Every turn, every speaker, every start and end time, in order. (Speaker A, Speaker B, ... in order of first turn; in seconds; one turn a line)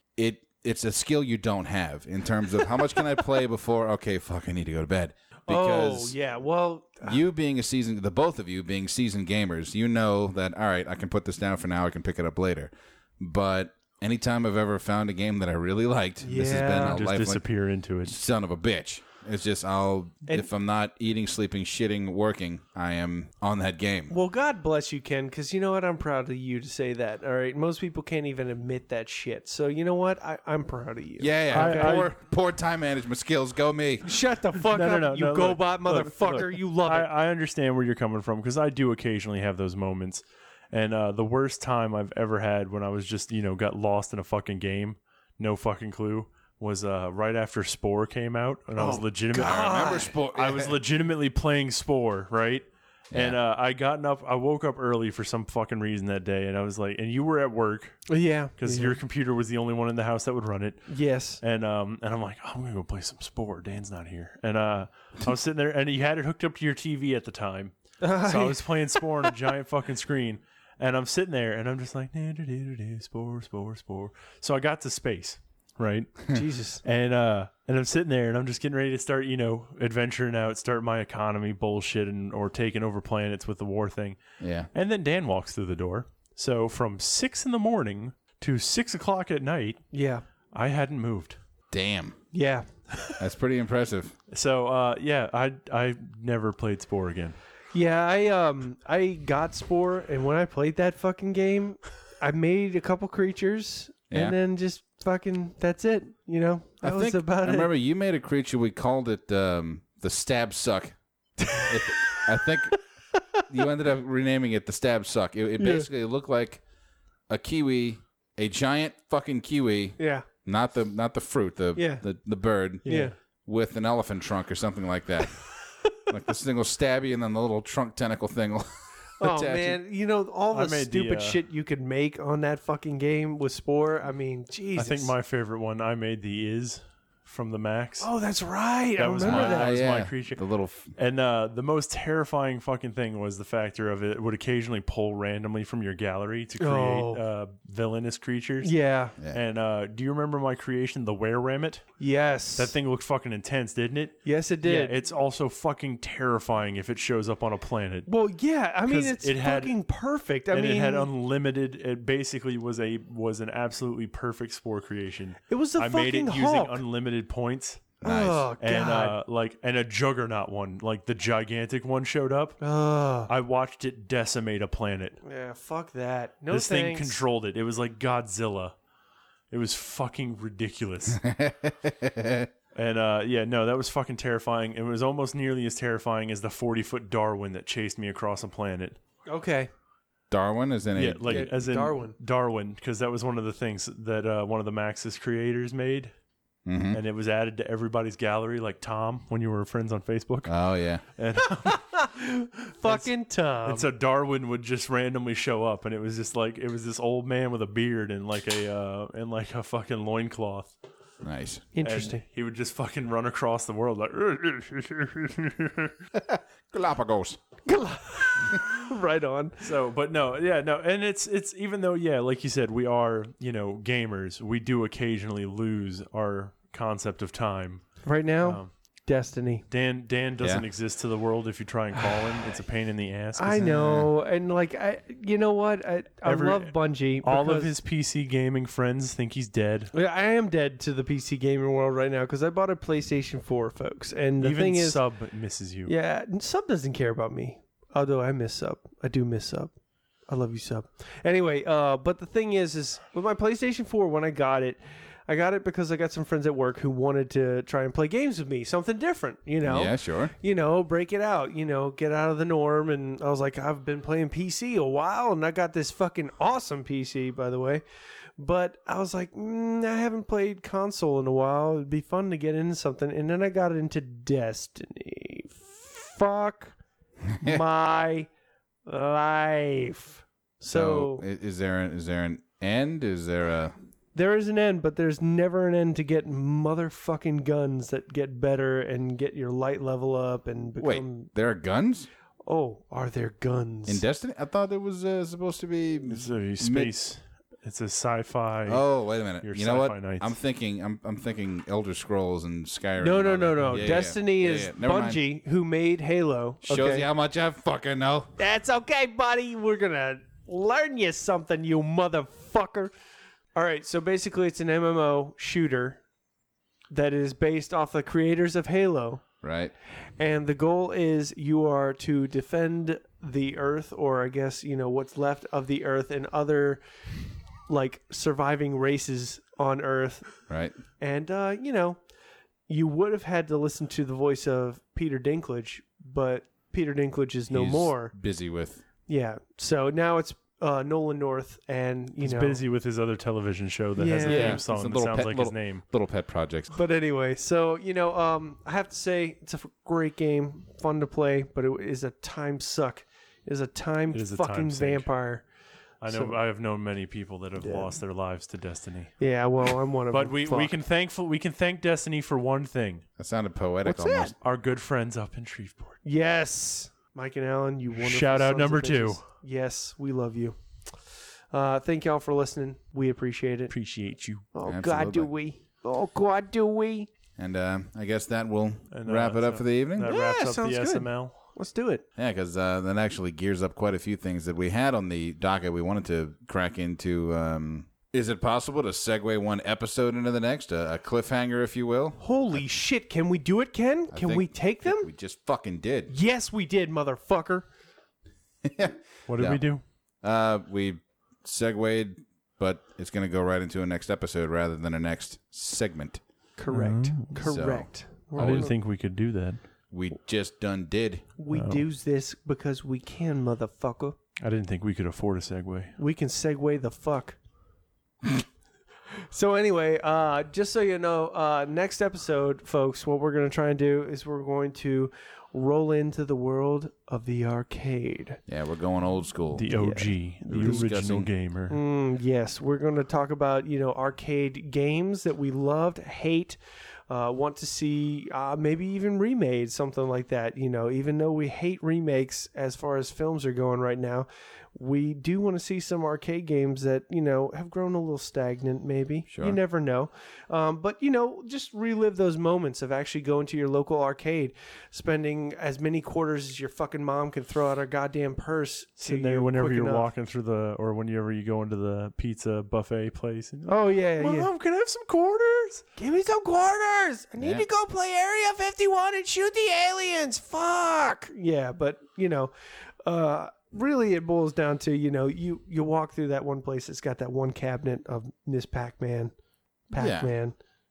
Speaker A: 0.2-6.2
Speaker B: 5.5-7.2
Speaker A: 7.0-17.4
Speaker B: 16.2-17.0
Speaker C: 16.8-18.2
Speaker A: 18.1-24.1
Speaker B: 24.1-32.1
Speaker A: 31.2-34.2
Speaker C: 31.5-32.1
Speaker B: 34.0-37.1
Speaker C: 34.6-84.2
Speaker B: 48.8-50.1
Speaker A: 49.4-50.8
Speaker A: 53.1-53.4
Speaker B: 58.1-59.0
Speaker B: 60.9-61.4
Speaker B: 68.0-69.3
Speaker B: 76.3-76.8
Speaker A: 84.4-84.7
Speaker C: 84.7-89.8
Speaker B: 89.9-90.2
Speaker C: 90.5-91.4
Speaker A: 91.7-92.2
Speaker B: 92.3-92.7
Speaker A: 93.2-94.2
Speaker C: 94.3-97.4
Speaker B: 97.7-107.7
Speaker A: 104.1-104.4
Speaker A: 106.8-111.0
Speaker B: 111.5-112.2
Speaker A: 111.5-112.8
Speaker A: 113.5-116.6
Speaker B: 115.6-115.9
Speaker A: 117.3-122.9
Speaker B: 120.0-120.3
Speaker B: 121.8-122.0
Speaker B: 122.8-123.1
Speaker C: 122.8-123.1
Speaker A: 123.5-125.5
Speaker A: 126.1-129.8
Speaker B: 129.2-135.1
Speaker C: 130.5-131.4
Speaker C: 134.8-138.1
Speaker B: 138.0-139.8
Speaker C: 139.0-140.4
Speaker A: 139.2-140.9
Speaker C: 140.9-151.9
Speaker B: 146.6-147.2
Speaker B: 148.6-149.2
Speaker B: 152.0-152.7
Speaker C: 152.6-158.1
Speaker B: 154.2-155.0
Speaker B: 158.1-161.1
Speaker C: 158.9-159.8
Speaker C: 160.5-167.9
Speaker B: 165.5-166.8
Speaker A: 168.0-168.5
Speaker B: 168.0-169.2
Speaker C: 168.6-172.6
Speaker B: 172.6-173.3
Speaker C: 173.3-175.2
Speaker B: 175.2-177.2
Speaker C: 176.5-178.8
Speaker C: 179.5-181.2
Speaker A: 181.1-182.5
Speaker C: 182.8-189.0
Speaker B: 189.3-189.7
Speaker A: 190.3-191.5
Speaker C: 190.9-196.1
Speaker B: 191.3-192.2
Speaker A: 196.7-197.0
Speaker C: 196.9-202.0
Speaker A: 200.5-201.0
Speaker B: 201.6-203.9
Speaker C: 202.8-203.1
Speaker C: 203.6-210.7
Speaker A: 211.2-211.7
Speaker B: 211.8-212.2
Speaker C: 211.8-216.0
Speaker A: 216.1-217.4
Speaker B: 217.7-219.6
Speaker C: 219.6-228.7
Speaker B: 228.0-229.7
Speaker C: 229.7-233.7
Speaker B: 233.4-237.7
Speaker A: 233.6-234.1
Speaker C: 236.2-239.9
Speaker B: 239.9-245.0
Speaker C: 244.4-245.9
Speaker B: 245.9-249.7
Speaker B: 250.3-267.8
Speaker A: 259.6-260.3
Speaker B: 268.4-276.8
Speaker A: 277.2-277.6
Speaker B: 277.4-278.3
Speaker B: 278.9-281.3
Speaker A: 280.7-283.8
Speaker B: 284.1-291.3
Speaker A: 290.8-292.1
Speaker B: 292.4-294.0
Speaker A: 293.9-296.9
Speaker C: 296.1-298.9
Speaker A: 298.6-305.2
Speaker C: 299.4-300.3
Speaker B: 303.0-307.1
Speaker A: 306.6-308.3
Speaker B: 308.4-312.9
Speaker B: 313.6-316.0
Speaker B: 316.9-319.2
Speaker A: 319.4-319.7
Speaker B: 320.2-326.8
Speaker B: 327.7-330.4
Speaker A: 330.5-330.8
Speaker B: 331.0-332.0
Speaker B: 332.7-338.1
Speaker A: 337.5-338.8
Speaker B: 339.1-342.6
Speaker C: 342.2-345.8
Speaker B: 344.0-344.6
Speaker A: 344.2-346.8
Speaker B: 346.7-355.4
Speaker C: 354.1-355.1
Speaker C: 356.0-359.2
Speaker B: 356.1-356.4
Speaker B: 357.6-357.9
Speaker B: 359.2-360.7
Speaker C: 360.1-363.0
Speaker A: 363.2-364.4
Speaker B: 363.9-364.3
Speaker C: 364.4-366.0
Speaker B: 366.1-370.6
Speaker C: 367.9-369.2
Speaker B: 371.5-373.7
Speaker C: 373.7-374.5
Speaker B: 374.5-377.1
Speaker A: 374.6-375.3
Speaker A: 377.4-380.1
Speaker C: 378.9-381.4
Speaker B: 380.0-382.0
Speaker A: 382.2-392.6
Speaker B: 392.2-395.1
Speaker A: 394.1-396.1
Speaker B: 396.1-397.7
Speaker A: 398.6-399.6
Speaker C: 399.3-399.8
Speaker A: 400.2-406.2
Speaker B: 406.6-408.7
Speaker C: 406.7-407.4
Speaker A: 407.4-408.7
Speaker C: 408.3-409.6
Speaker A: 409.9-411.3
Speaker B: 411.4-414.2
Speaker C: 411.5-411.8
Speaker C: 414.4-416.0
Speaker B: 416.0-417.4
Speaker B: 419.3-428.4
Speaker A: 428.5-429.7
Speaker C: 429.5-431.8
Speaker B: 429.7-430.8
Speaker A: 430.5-431.3
Speaker B: 431.7-436.6
Speaker B: 437.1-460.1
Speaker A: 449.3-449.6
Speaker C: 459.0-465.9
Speaker B: 463.7-464.5
Speaker B: 466.0-472.5
Speaker A: 467.4-467.6
Speaker B: 473.0-479.3
Speaker B: 479.9-480.6
Speaker A: 480.0-480.3